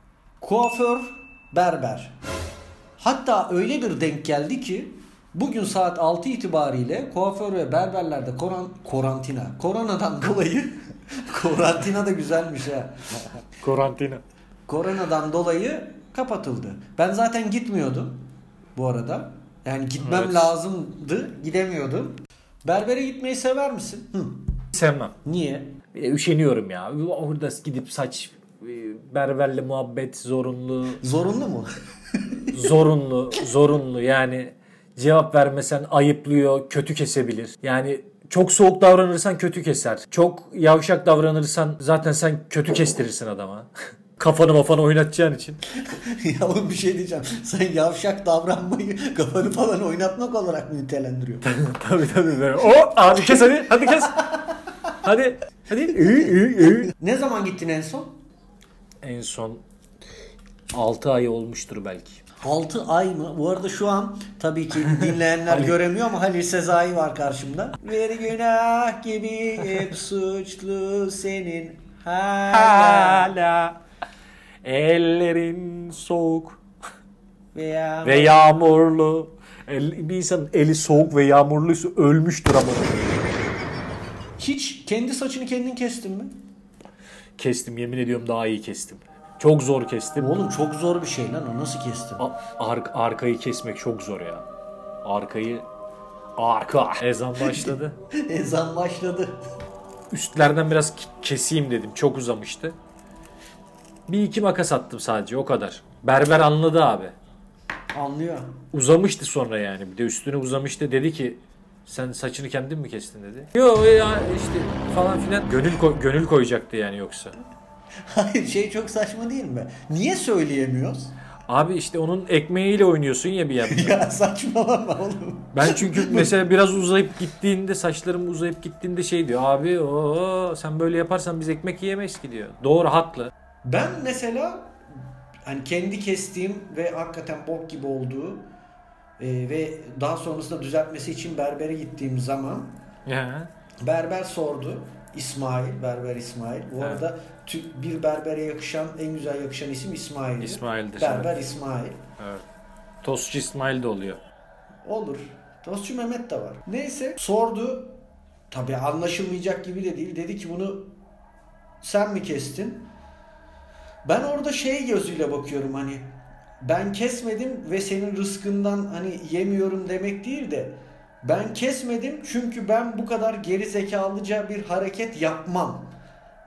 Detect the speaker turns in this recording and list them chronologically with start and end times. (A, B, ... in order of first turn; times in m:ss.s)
0:00.4-0:02.2 A
0:03.0-0:13.0 A
0:13.6-0:14.2 B
0:14.7-0:24.5 A
0:20.0-0:20.5 B
0:24.7-0:25.1 B
0:25.2-0:25.8 A
0:25.9-0:31.0 B
0:31.0-0:32.5 A
0:32.5-0:45.6 B
0:45.9-0:51.5 A
0:51.4-0:54.3 B
0:54.0-0:54.5 A
0:55.0-0:56.9 B
0:56.9-0:58.2 A
0:59.0-0:59.6 B
1:00.7-1:02.2 B
1:02.4-1:13.3 A
1:05.5-1:05.7 B
1:12.5-1:13.8 B
1:14.6-1:16.6 B
1:17.5-1:18.5 A
1:18.0-1:23.3 B
1:24.4-1:26.4 A
1:27.4-1:30.4 B
1:30.2-1:32.2 A
1:32.2-1:34.4 B
1:35.0-1:35.7 B
1:36.4-1:38.0 B
1:37.4-1:39.4 A
1:40.1-1:42.8 B
1:44.1-1:47.1 B
1:47.9-1:48.6 A
1:48.7-1:57.3 B
1:58.1-2:01.1 A
2:01.5-2:04.0 B
2:03.7-2:06.3 A
2:05.5-2:13.3 B
2:13.6-2:14.8 A
2:15.4-2:18.5 A
2:19.2-2:22.8 A
2:23.0-2:23.5 B
2:23.8-2:32.0 A
2:26.8-2:27.0 B
2:30.4-2:31.4 B
2:32.2-2:32.4 B
2:33.0-2:34.2 B
2:34.8-2:38.0 A
2:38.5-2:40.9 A
2:41.8-2:42.9 A
2:44.0-2:55.9 A